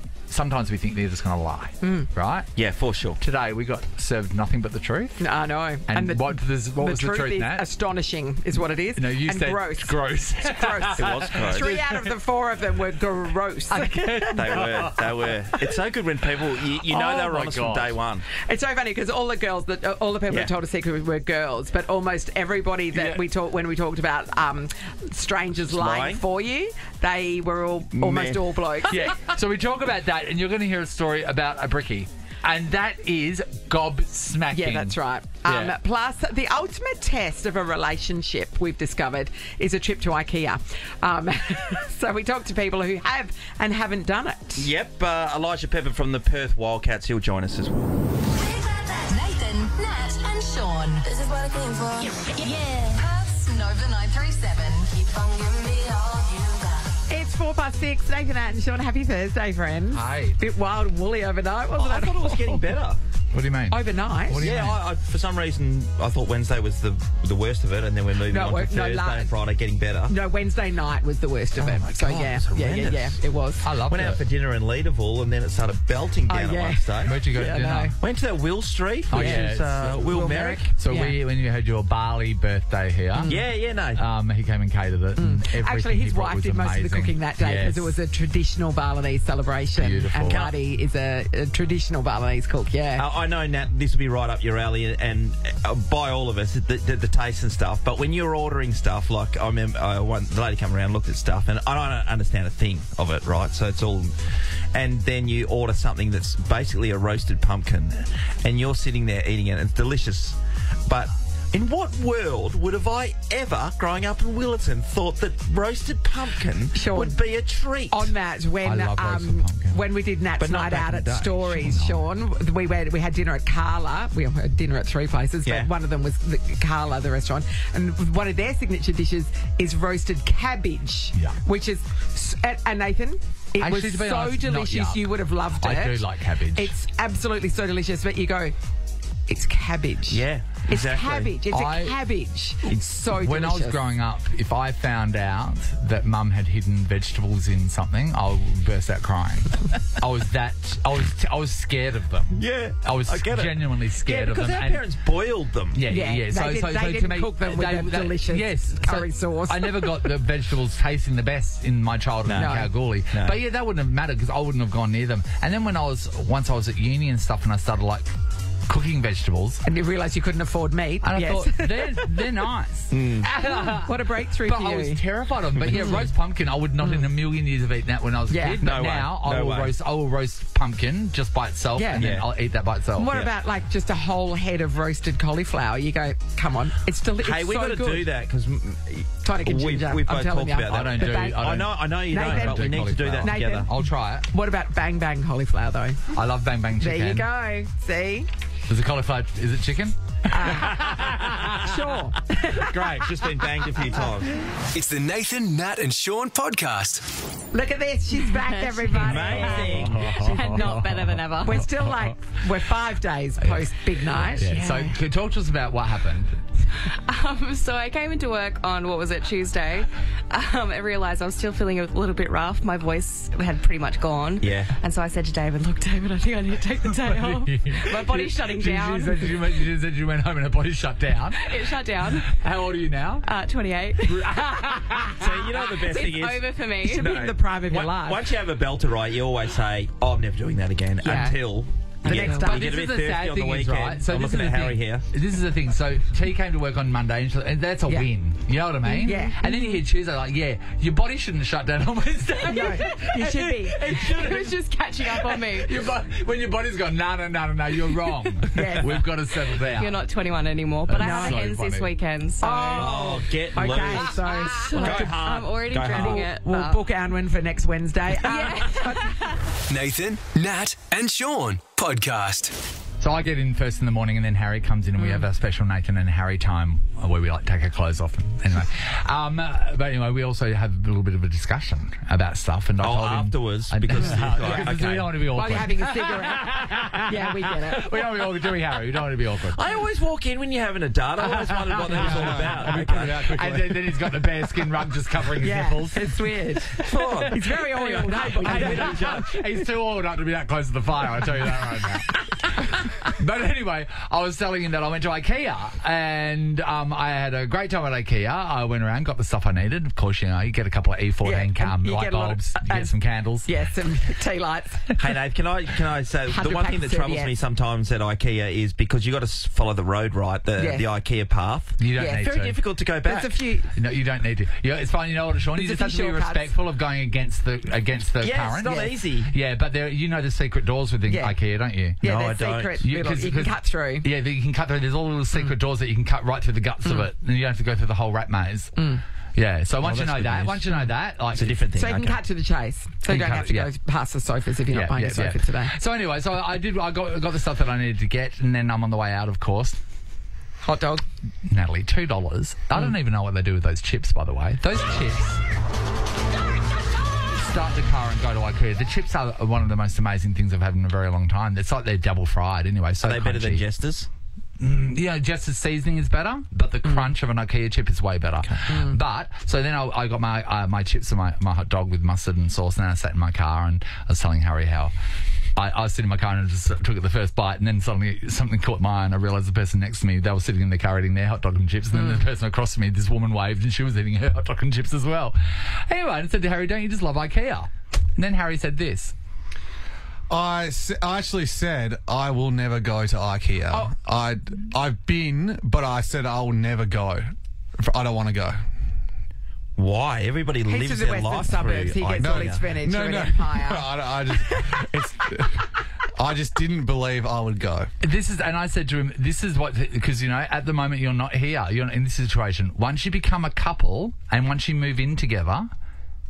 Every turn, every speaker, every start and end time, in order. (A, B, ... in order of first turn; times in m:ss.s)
0:00.3-0:02.5 A
0:01.8-0:02.1 B
0:02.6-0:03.2 C
0:03.2-0:05.2 A
0:05.2-0:14.7 B
0:05.9-0:07.6 A
0:09.0-0:12.1 A
0:11.0-0:11.7 C
0:13.7-0:15.1 A
0:14.4-0:18.3 C
0:16.9-0:17.9 A
0:18.4-0:29.1 B
0:25.7-0:26.2 C
0:27.9-0:28.4 C
0:28.9-0:35.7 A
0:34.5-0:44.7 B
0:44.6-0:47.8 C
0:48.4-0:56.9 D
0:57.1-1:02.7 B
0:59.9-1:00.4 A
1:01.7-1:03.0 C
1:03.3-1:04.8 A
1:03.7-1:04.4 B
1:04.4-1:10.1 C
1:08.3-1:09.3 B
1:10.1-1:13.6 B
1:11.6-1:13.2 C
1:13.6-1:14.2 A
1:13.9-1:20.7 C
1:16.3-1:18.0 B
1:17.1-1:17.9 A
1:19.1-1:20.0 A
1:19.1-1:21.2 B
1:20.8-1:27.9 A
1:23.1-1:23.4 B
1:23.2-1:24.0 C
1:25.2-1:33.1 B
1:29.8-1:30.4 A
1:30.2-1:30.6 C
1:33.0-1:44.2 C
1:44.7-1:58.1 C
1:56.7-1:57.2 B
1:57.9-2:16.0 B
1:58.6-1:59.8 A
2:00.4-2:01.6 C
2:01.6-2:02.0 A
2:05.4-2:05.7 C
2:13.6-2:16.7 A
2:16.6-2:18.5 B
2:19.3-2:23.8 B
2:20.1-2:21.3 C
2:21.5-2:22.0 A
2:23.1-2:34.8 A
2:32.3-2:35.8 C
2:35.8-2:48.1 A
2:35.9-2:39.9 B
2:42.2-2:43.4 C
2:42.4-2:42.7 B
2:48.7-2:49.6 A
2:49.6-2:52.3 B
2:51.0-3:03.2 A
2:52.9-2:53.3 C
2:53.4-2:55.0 B
2:55.7-2:56.1 B
2:56.8-2:57.1 B
2:58.3-2:58.6 B
2:58.6-2:59.7 C
3:01.8-3:02.1 B
3:02.0-3:02.3 C
3:03.0-3:08.1 B
3:07.2-3:13.7 C
3:09.2-3:11.6 B
3:10.7-3:14.3 A
3:12.1-3:16.0 B
3:16.1-3:17.3 A
3:16.8-3:18.3 B
3:18.7-3:21.8 A
3:20.3-3:22.8 B
3:22.7-3:23.1 A
3:23.0-3:24.4 C
3:24.7-3:27.0 E
3:27.5-3:29.9 B
3:28.2-3:31.7 F
3:29.0-3:30.0 C
3:29.4-3:32.2 A
3:31.4-3:34.9 B
3:33.4-3:36.4 A
3:37.1-3:49.6 F
3:44.4-3:44.7 C
3:47.0-3:53.3 A
3:51.4-3:52.3 F
3:53.2-3:54.2 F
3:54.0-3:55.2 A
3:55.2-4:05.0 C
3:55.7-3:57.1 F
3:56.8-3:58.3 B
4:01.0-4:01.4 B
4:01.1-4:01.3 F
4:02.0-4:02.7 B
4:02.1-4:14.6 A
4:08.8-4:09.8 B
4:12.5-4:14.0 B
4:13.9-4:15.8 F
4:15.1-4:20.0 A
4:18.5-4:19.0 B
4:19.8-4:22.9 F
4:20.9-4:21.9 A
4:21.0-4:21.4 B
4:22.4-4:25.2 B
4:22.7-4:26.3 C
4:23.8-4:26.8 F
4:25.9-4:29.2 B
4:28.2-4:29.2 F
4:29.7-4:32.5 E
4:33.0-4:49.6 A
4:42.8-4:45.2 C
4:44.0-4:44.7 B
4:45.3-4:47.9 B
4:49.5-4:53.8 C
4:51.2-4:56.2 A
4:52.0-4:52.3 B
4:55.4-4:59.2 B
4:56.8-4:59.3 C
4:56.9-5:13.5 A
5:11.2-5:12.9 B
5:13.5-5:14.9 B
5:15.0-5:23.4 C
5:16.3-5:17.3 B
5:20.6-5:20.9 B
5:21.8-5:22.6 A
5:22.0-5:22.3 B
5:23.0-5:23.7 B
5:23.7-5:32.0 A
5:25.6-5:26.5 B
5:28.2-5:29.3 C
5:31.1-5:31.4 B
5:32.0-5:34.1 B
5:32.0-5:32.8 C
5:32.8-5:38.8 A
5:38.8-5:39.0 B
5:39.4-5:41.6 A
5:39.8-5:40.8 C
5:41.3-5:42.2 C
5:41.8-5:45.7 B
5:43.1-5:43.7 A
5:44.7-5:49.8 A
5:50.6-5:51.0 B
5:51.4-5:55.4 A
5:57.3-6:03.6 A
6:03.0-6:04.1 C
6:04.6-6:14.9 A
6:06.8-6:07.1 B
6:08.7-6:09.0 B
6:15.6-6:29.1 A
6:21.9-6:22.2 B
6:30.3-6:38.6 G
6:39.8-6:42.6 C
6:40.7-6:43.9 B
6:42.2-6:47.9 G
6:48.0-6:55.7 A